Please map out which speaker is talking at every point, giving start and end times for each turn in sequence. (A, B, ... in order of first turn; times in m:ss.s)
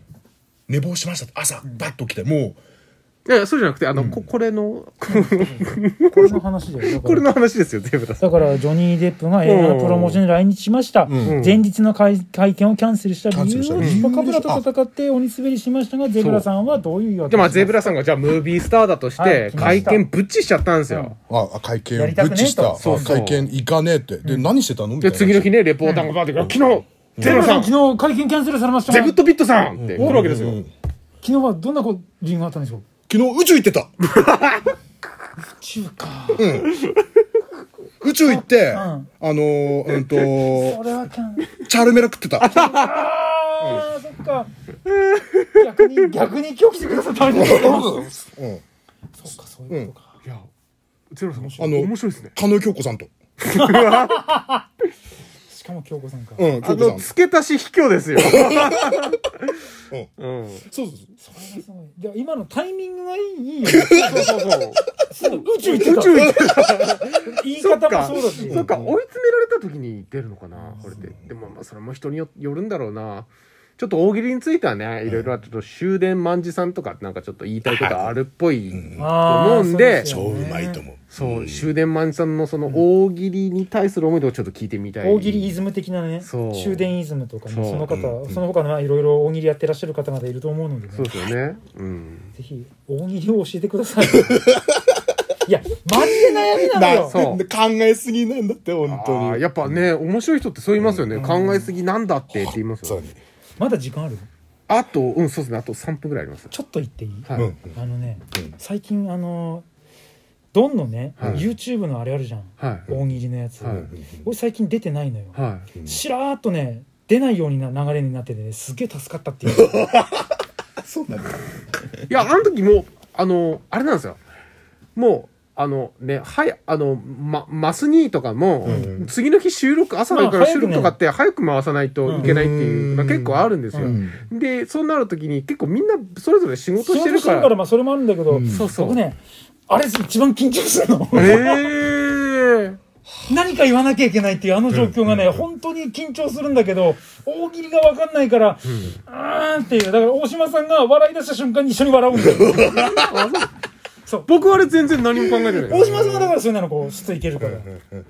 0:00.7-0:02.6 A
0:03.2-0:08.4 B
0:05.1-0:07.3 C
0:08.2-0:18.0 C
0:09.4-0:10.2 B
0:11.0-0:11.4 A
0:11.2-0:11.6 B
0:13.3-0:14.6 A
0:13.8-0:14.1 B
0:16.2-0:16.5 B
0:17.3-0:21.2 B
0:19.2-0:20.0 C
0:19.6-0:19.9 A
0:20.9-0:21.2 C
0:21.3-0:25.5 A
0:21.9-0:23.2 C
0:22.8-0:23.5 B
0:24.2-0:24.5 C
0:25.0-0:27.7 B
0:25.8-0:26.1 C
0:27.2-0:27.4 A
0:27.2-0:29.2 C
0:28.9-0:30.6 B
0:29.8-0:30.7 A
0:30.0-0:30.3 C
0:31.2-0:32.8 C
0:33.1-0:33.9 A
0:34.0-0:34.7 B
0:35.6-0:36.5 C
0:36.4-0:36.8 A
0:38.0-0:40.8 A
0:38.2-0:39.1 C
0:40.2-0:41.5 C
0:41.5-0:42.5 A
0:42.4-0:43.0 B
0:42.4-0:44.5 C
0:43.6-0:43.9 A
0:45.1-0:45.6 B
0:45.5-0:48.1 C
0:47.4-0:48.6 A
0:49.2-0:50.1 C
0:51.1-0:52.3 B
0:51.5-0:53.1 A
0:53.4-0:54.4 B
0:53.5-0:54.6 C
0:55.5-0:56.5 C
0:56.4-0:57.1 A
0:56.6-0:59.5 B
0:58.2-0:59.0 A
1:00.2-1:00.6 B
1:00.7-1:01.1 A
1:01.2-1:04.4 C
1:03.7-1:04.2 A
1:03.8-1:04.8 B
1:05.1-1:06.4 C
1:05.4-1:20.1 B
1:06.1-1:06.6 A
1:07.2-1:08.9 C
1:08.4-1:08.8 A
1:10.8-1:11.1 A
1:17.6-1:18.2 A
1:18.7-1:19.1 A
1:19.0-1:20.8 C
1:20.0-1:21.7 A
1:21.1-1:25.5 B
1:25.0-1:31.1 C
1:26.2-1:26.9 B
1:27.5-1:27.9 B
1:27.9-1:28.4 A
1:30.9-1:32.3 B
1:32.3-1:34.5 C
1:34.3-1:35.1 A
1:35.4-1:37.2 C
1:36.0-1:39.8 A
1:37.0-1:37.4 B
1:38.8-1:43.0 B
1:40.8-1:41.2 A
1:41.1-1:41.7 C
1:42.3-1:43.2 A
1:43.6-1:44.3 C
1:44.7-1:46.5 B
1:46.5-1:49.6 C
1:47.2-1:47.5 B
1:47.3-1:47.8 A
1:50.5-1:59.9 C
1:51.2-1:51.5 B
1:51.2-1:51.5 A
1:52.6-1:52.9 B
1:53.6-1:53.9 B
1:53.9-1:54.2 A
1:55.3-1:55.7 B
1:59.5-2:02.0 A
2:02.1-2:04.2 B
2:05.0-2:17.5 B
2:08.6-2:08.9 C
2:08.6-2:09.1 A
2:10.1-2:11.0 C
2:12.0-2:12.3 C
2:12.2-2:14.2 A
2:13.7-2:14.0 C
2:16.8-2:21.7 C
2:18.3-2:18.7 A
2:18.5-2:19.0 B
2:21.1-2:22.8 B
2:21.2-2:21.4 A
2:23.3-2:33.0 C
2:24.7-2:25.4 A
2:28.6-2:29.0 B
2:32.4-2:32.8 A
2:32.7-2:33.5 B
2:34.3-2:36.2 B
2:35.4-2:36.0 A
2:35.6-2:37.7 C
2:37.4-2:37.8 A